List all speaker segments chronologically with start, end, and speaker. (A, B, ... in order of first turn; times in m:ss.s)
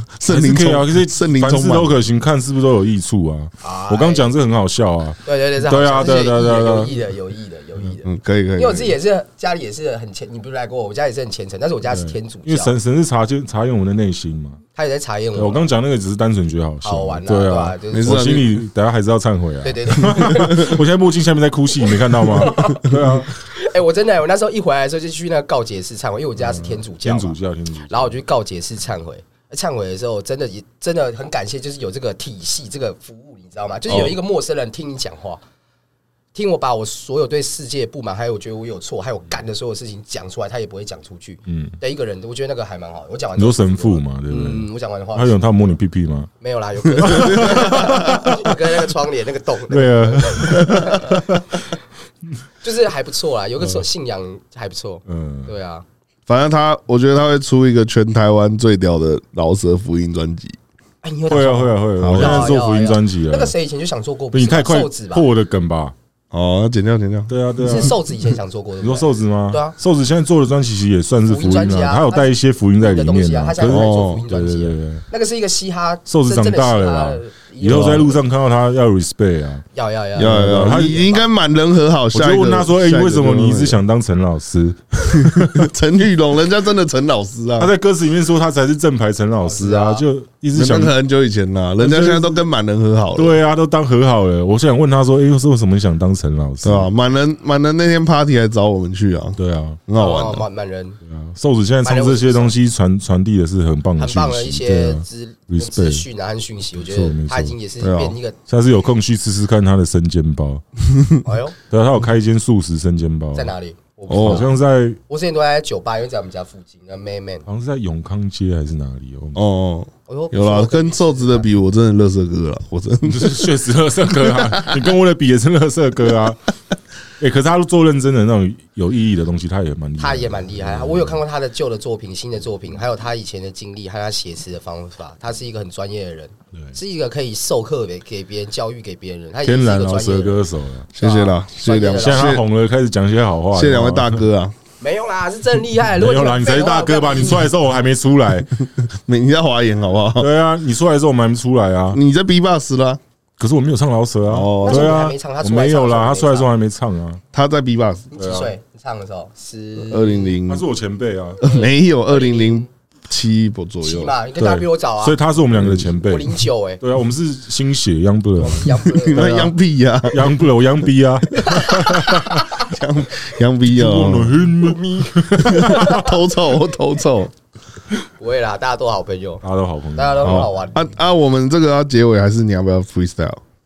0:00.2-0:02.0 A
0:00.3-0:06.9 B
0:03.6-0:04.3 C
0:05.3-0:12.7 C
0:08.0-0:09.0 A
0:11.9-0:14.6 B
0:14.8-0:15.7 C
0:15.4-0:23.3 B
0:16.8-0:18.3 C
0:17.9-0:18.6 A
0:19.6-0:20.8 C
0:21.9-0:22.9 C
0:23.4-0:27.4 C
0:26.4-0:28.2 B
0:27.9-0:35.4 C
0:36.3-0:45.4 C
0:41.5-0:41.8 B
0:43.4-0:46.3 B
0:46.4-0:51.2 C
0:47.0-0:48.6 B
0:49.7-0:51.5 B
0:52.6-0:55.8 C
0:55.1-0:55.5 B
0:56.3-1:00.6 A
1:01.0-1:05.3 C
1:01.3-1:03.5 B
1:02.0-1:02.5 A
1:04.3-1:06.0 B
1:06.3-1:07.9 A
1:07.3-1:08.0 B
1:07.6-1:09.8 C
1:08.8-1:15.0 B
1:11.3-1:18.2 C
1:13.6-1:14.2 A
1:16.1-1:19.6 B
1:17.7-1:18.0 A
1:19.7-1:21.2 C
1:20.2-1:23.8 A
1:20.2-1:21.1 B
1:22.1-1:25.7 B
1:25.1-1:27.7 A
1:27.6-1:30.9 B
1:29.4-1:30.0 C
1:30.5-1:33.4 A
1:31.8-1:32.4 B
1:33.2-1:36.9 B
1:36.6-1:40.4 A
1:39.4-1:39.8 B
1:40.0-1:41.0 C
1:41.0-1:46.1 B
1:41.8-1:42.5 C
1:44.0-1:48.4 C
1:46.8-1:47.6 B
1:47.8-1:48.2 A
1:48.5-1:50.6 B
1:51.2-1:51.6 C
1:51.7-1:53.5 B
1:53.3-1:54.6 C
1:54.1-1:54.4 A
1:54.1-1:55.0 B
1:55.1-1:57.4 C
1:57.5-1:59.4 B
1:59.4-2:03.5 A
2:00.1-2:01.5 C
2:03.0-2:06.6 B
2:04.3-2:04.8 A
2:07.2-2:11.2 B
2:10.0-2:20.4 C
2:19.4-2:20.9 B
2:20.9-2:22.4 A
2:21.0-2:22.4 C
2:22.0-2:24.2 B
2:23.5-2:24.5 A
2:24.8-2:27.5 C
2:26.0-2:28.5 B
2:28.9-2:30.3 A
2:30.2-2:32.0 B
2:31.9-2:33.0 A
2:33.4-2:37.2 B
2:34.3-2:35.0 A
2:34.6-2:36.5 C
2:37.3-2:38.1 A
2:38.1-2:40.4 C
2:38.2-2:38.5 B
2:39.9-2:40.6 A
2:40.5-2:41.6 B
2:41.4-2:44.2 A
2:41.4-2:42.7 C
2:43.8-2:45.2 C
2:44.4-2:52.5 B
2:45.6-2:45.9 A
2:46.0-2:46.8 C
2:48.4-2:49.4 C
2:48.9-2:50.4 A
2:51.4-2:52.3 C
2:51.4-2:54.4 A
2:53.6-2:56.1 B
2:54.6-2:56.0 C
2:55.4-2:57.3 A
2:58.2-2:59.4 C
2:59.4-3:00.5 B
3:00.0-3:00.9 C
3:00.2-3:03.4 A